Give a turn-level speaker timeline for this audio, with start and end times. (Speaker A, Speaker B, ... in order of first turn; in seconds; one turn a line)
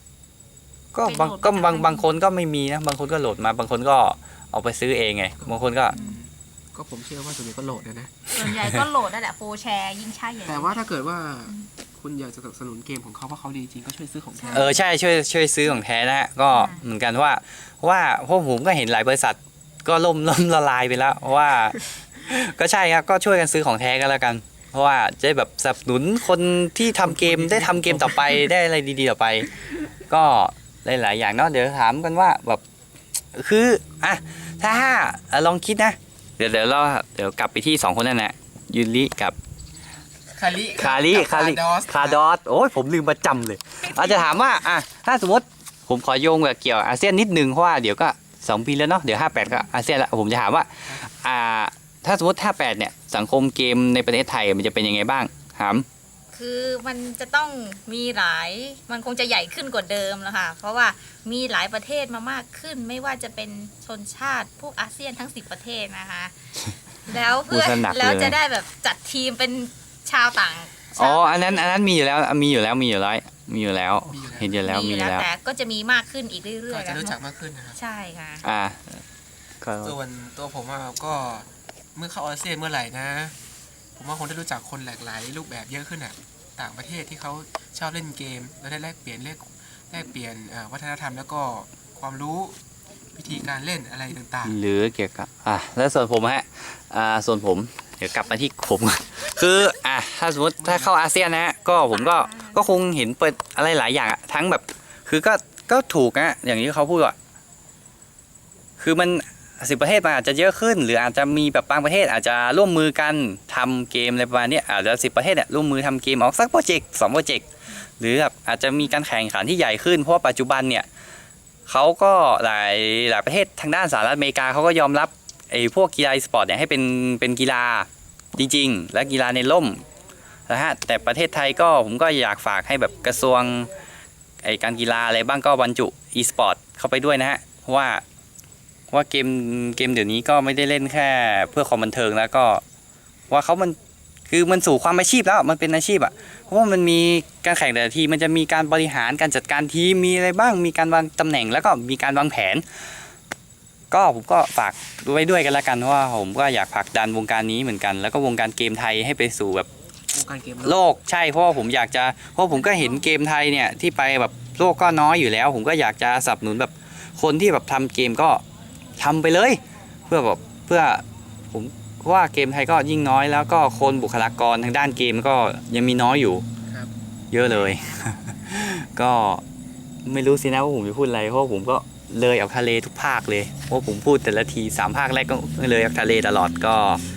Speaker A: 0.9-6.0
Speaker B: 1.0-2.1
Speaker C: 5.4-8.2
Speaker B: 5.9-6.2
Speaker B: 8.3-10.8
Speaker A: 8.5-8.8
Speaker C: 10.4-14.8
Speaker B: 14.4-14.8
Speaker A: 14.5-29.5
Speaker B: 16.5-16.8
Speaker C: 27.0-28.5
Speaker A: 30.1-32.6
Speaker A: 33.3-39.4
Speaker C: 40.3-42.2
Speaker A: 40.8-55.9
Speaker B: 43.9-44.3
Speaker B: 56.3-66.3
Speaker B: 67.0-71.7
Speaker A: 67.5-68.3
Speaker A: 71.0-75.2
Speaker C: 74.1-74.5
Speaker B: 74.6-77.2
Speaker C: 76.7-77.8
Speaker B: 77.8-78.4
Speaker A: 78.4-79.0
Speaker A: 79.6-79.9
Speaker C: 79.8-83.3
Speaker C: 84.0-92.6
Speaker C: 93.1-94.6
Speaker A: 94.4-107.1
Speaker C: 100.6-100.9
Speaker B: 101.8-102.8
Speaker A: 108.8-117.4
Speaker A: 118.0-120.8
Speaker A: 121.7-129.8
Speaker A: 130.5-133.7
Speaker A: 134.4-138.0
Speaker A: 138.9-142.6
Speaker A: 143.3-143.8
Speaker A: 144.3-152.6
Speaker A: 153.9-159.7
Speaker C: 160.1-160.8
Speaker A: 160.6-168.4
Speaker B: 162.5-163.1
Speaker A: 169.0-176.4
Speaker C: 176.7-176.9
Speaker A: 177.3-179.4
Speaker B: 177.4-178.3
Speaker A: 180.0-187.0